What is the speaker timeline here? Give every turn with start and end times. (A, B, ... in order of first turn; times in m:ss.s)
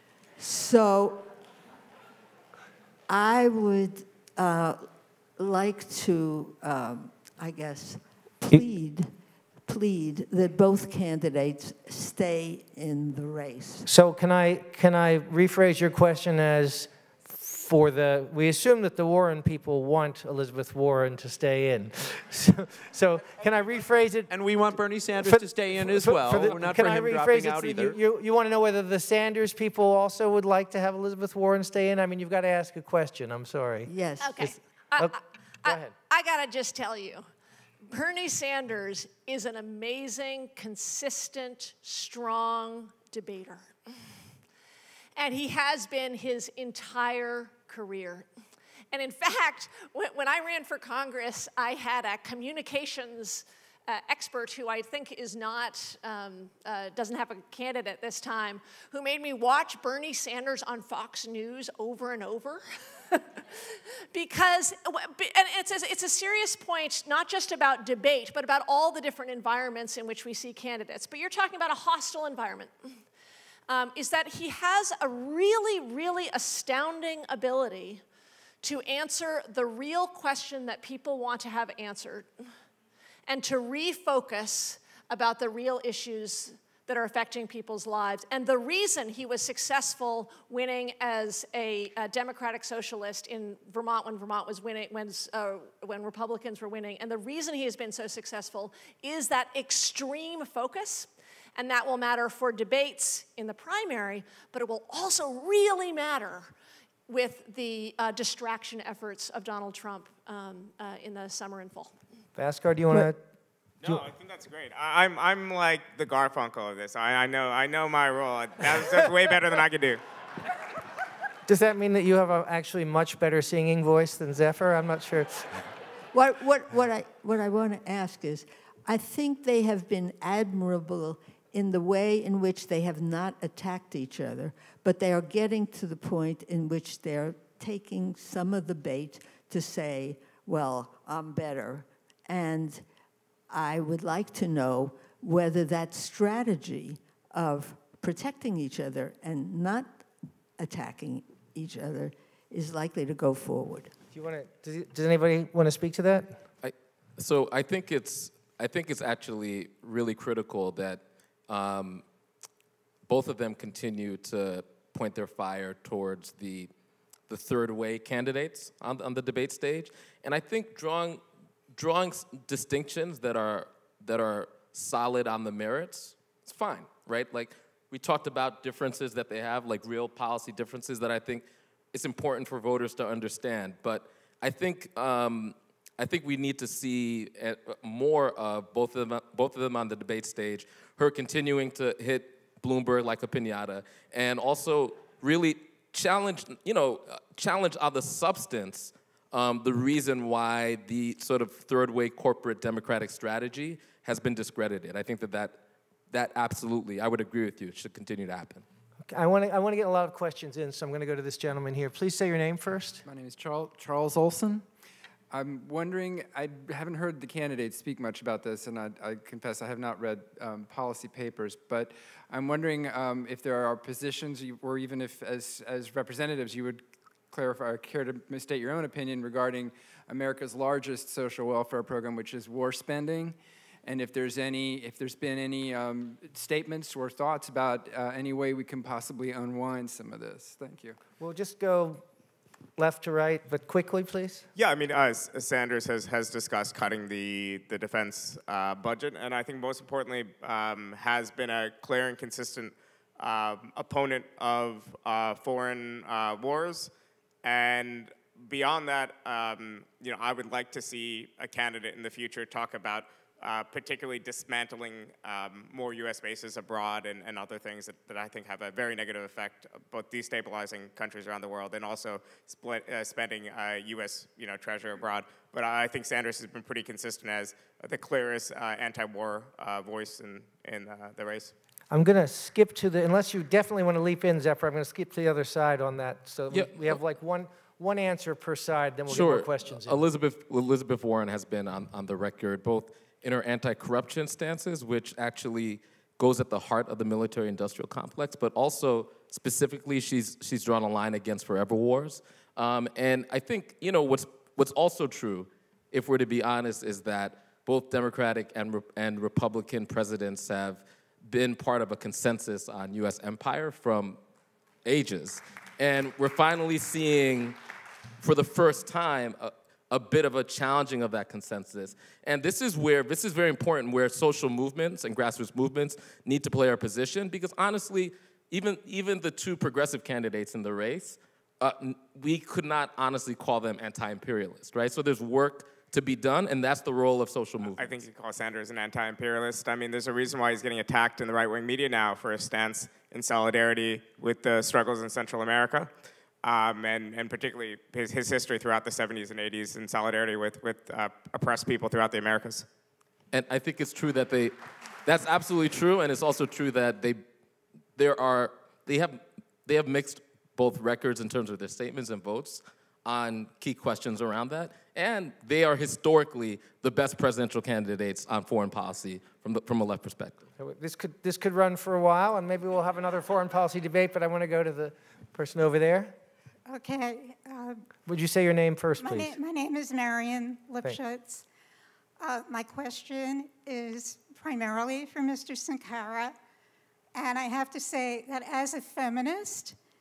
0:00.4-0:01.3 A
0:03.1-0:04.9 A
0:05.4-0:09.1 A
0:09.7-0:13.9 A
0:13.9-0:24.3 B
0:24.3-0:28.0 C
0:25.2-0:35.1 B
0:33.9-0:34.4 A
0:34.2-0:37.3 D
0:35.6-0:35.9 B
0:37.9-0:43.7 D
0:45.2-0:48.3 D
0:48.9-1:03.2 D
1:04.1-1:12.8 D
1:13.7-1:18.0 D
1:18.6-1:22.3 D
1:23.3-1:46.5 D
1:47.1-1:52.0 D
1:52.4-1:53.2 B
1:53.8-2:00.0 E
2:01.5-2:05.7 B
2:06.1-2:22.8 A
2:23.5-2:30.0 A
2:30.6-2:33.9 A
2:34.1-2:36.4 B
2:36.6-2:42.0 F
2:43.1-2:46.7 F
2:47.3-2:51.2 F
2:51.7-3:25.6 F
3:26.1-3:28.6 F
3:29.1-3:33.0 B
3:33.1-3:34.7 G
3:35.3-4:01.0 G
4:01.2-4:02.0 B
4:02.8-4:04.5 B
4:04.6-4:16.9 E
4:17.4-4:41.5 E
4:41.9-4:50.0 B
4:49.1-5:14.2 F
5:14.8-5:17.6 F
5:18.2-5:38.0 F
5:37.8-5:45.9 E
5:46.4-5:52.7 E
5:53.3-5:54.5 F
5:55.0-5:57.2 F
5:58.0-6:10.5 F
6:10.6-6:16.1 B
6:16.7-6:17.8 H
6:18.1-6:19.4 B
6:19.0-6:21.4 H
6:22.2-6:26.4 H
6:27.2-6:29.8 H